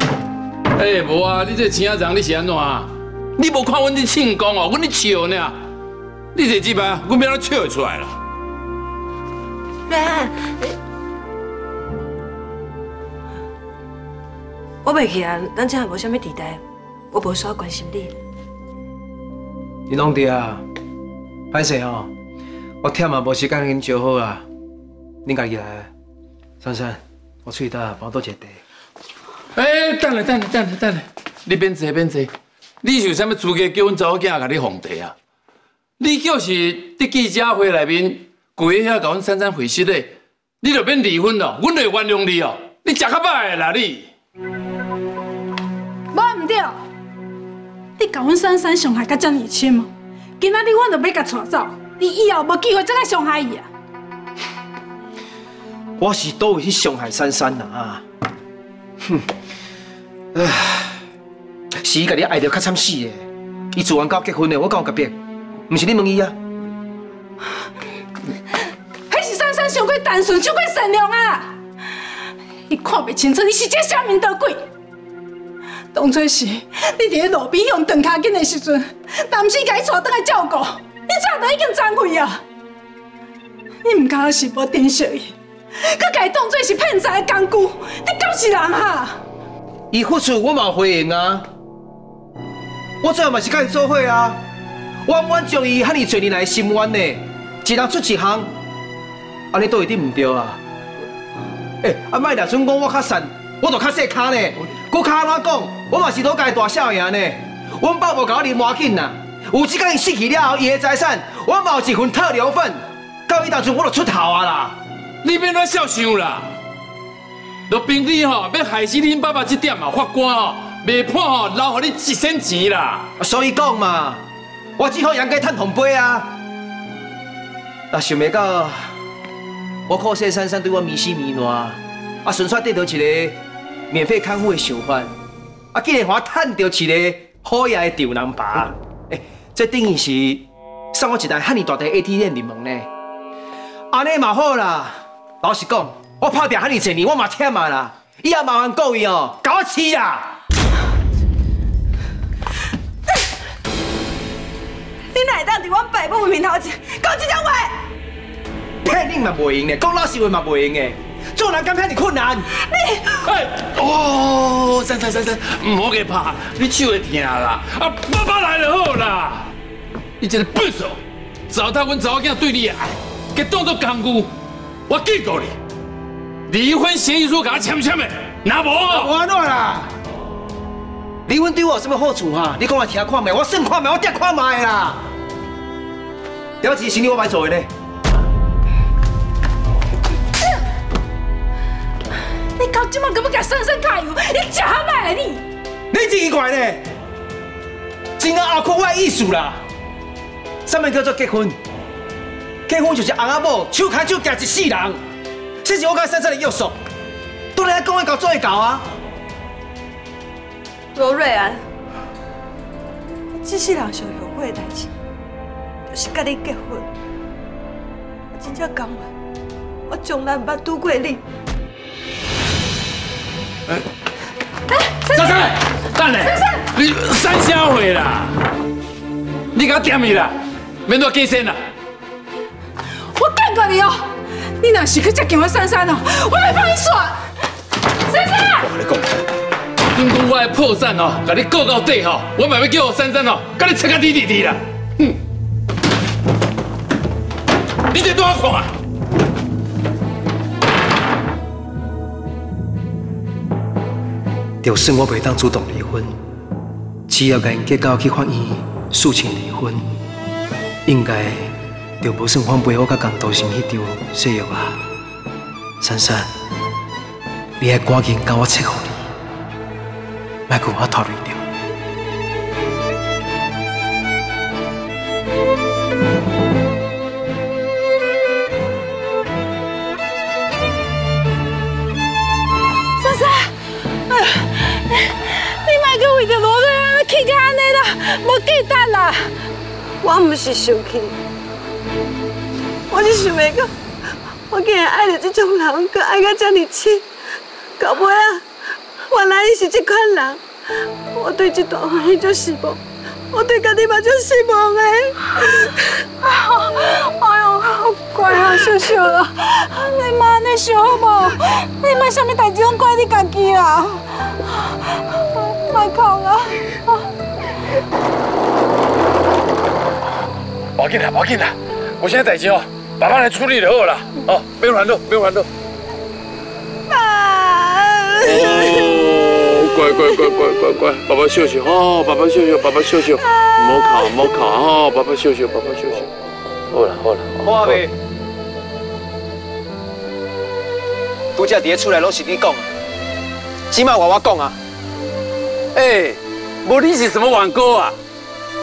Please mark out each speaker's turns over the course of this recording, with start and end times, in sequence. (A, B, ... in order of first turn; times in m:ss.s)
0:00.7-0:05.6 A
0:06.3-0:08.2 A
0:09.9-0:10.5 B
0:14.8-0:16.6 B
0:17.1-0:18.1 B
0:19.9-0:20.6 C
0:21.5-0:22.1 C
0:22.8-0:24.5 C
0:25.2-0:25.9 C
0:26.6-0:28.6 C
0:29.6-0:32.3 A
0:32.8-0:35.1 A
0:36.0-0:40.1 A
0:40.6-0:44.1 A
0:46.1-0:46.8 D
0:48.0-0:53.7 D
0:56.0-0:58.0 C
1:00.3-1:01.0 C
1:01.8-1:05.2 C
1:05.7-1:06.4 C
1:09.1-1:11.5 D
1:12.7-1:14.6 D
1:15.9-1:22.4 D
1:23.9-1:25.3 D
1:25.8-1:29.2 D
1:29.9-1:31.5 C
1:33.0-1:34.4 C
1:35.1-1:38.6 C
1:39.5-1:40.6 C
1:41.8-1:54.8 C
1:55.2-1:56.5 A
1:57.7-2:03.1 A
2:03.2-2:04.2 C
2:04.8-2:06.3 C
2:07.9-2:08.9 C
2:09.9-2:13.4 C
2:13.9-2:15.2 C
2:15.7-2:22.9 C
2:23.9-2:30.3 C
2:35.2-2:37.7 B
2:38.8-2:42.5 C
2:43.1-2:49.5 A
2:50.2-2:51.0 A
2:51.5-2:54.3 A
2:54.9-2:55.6 A
2:56.5-2:59.1 A
2:58.9-2:59.9 C
3:01.3-3:05.0 C
3:06.6-3:07.7 C
3:12.6-3:15.4 D
3:15.9-3:16.8 C
3:18.2-3:19.6 C
3:20.6-3:21.6 C
3:22.7-3:25.0 C
3:25.6-3:26.8 C
3:27.6-3:28.8 C
3:31.0-3:31.6 B
3:33.4-3:34.9 B
3:35.9-3:36.8 B
3:38.4-3:39.0 B
3:40.0-3:41.2 B
3:45.1-3:48.3 A
3:46.3-3:46.6 D
3:49.5-3:51.6 A
3:53.1-3:54.1 D
3:54.6-3:57.3 D
3:58.1-3:58.7 D
3:58.6-3:59.1 A
3:59.9-4:05.2 A
4:07.9-4:08.7 A
4:14.6-4:16.2 C
4:17.1-4:20.0 C
4:20.9-4:24.8 C
4:25.8-4:26.3 C
4:27.6-4:29.1 C
4:30.5-4:31.4 C
4:43.0-4:43.5 B
4:44.4-4:44.8 D
4:45.4-4:49.3 D
4:50.0-4:51.2 B
4:52.9-4:53.7 B
4:54.5-4:57.0 B
4:57.8-4:58.4 B
4:59.1-5:00.4 B
5:01.2-5:02.8 B
5:03.3-5:05.1 B
5:06.2-5:17.0 D
5:20.8-5:25.5 A
5:28.2-5:36.1 A
5:36.7-5:37.8 A
5:37.4-5:37.9 C
5:41.4-5:42.7 C
5:43.7-5:44.6 C
5:45.8-5:48.0 A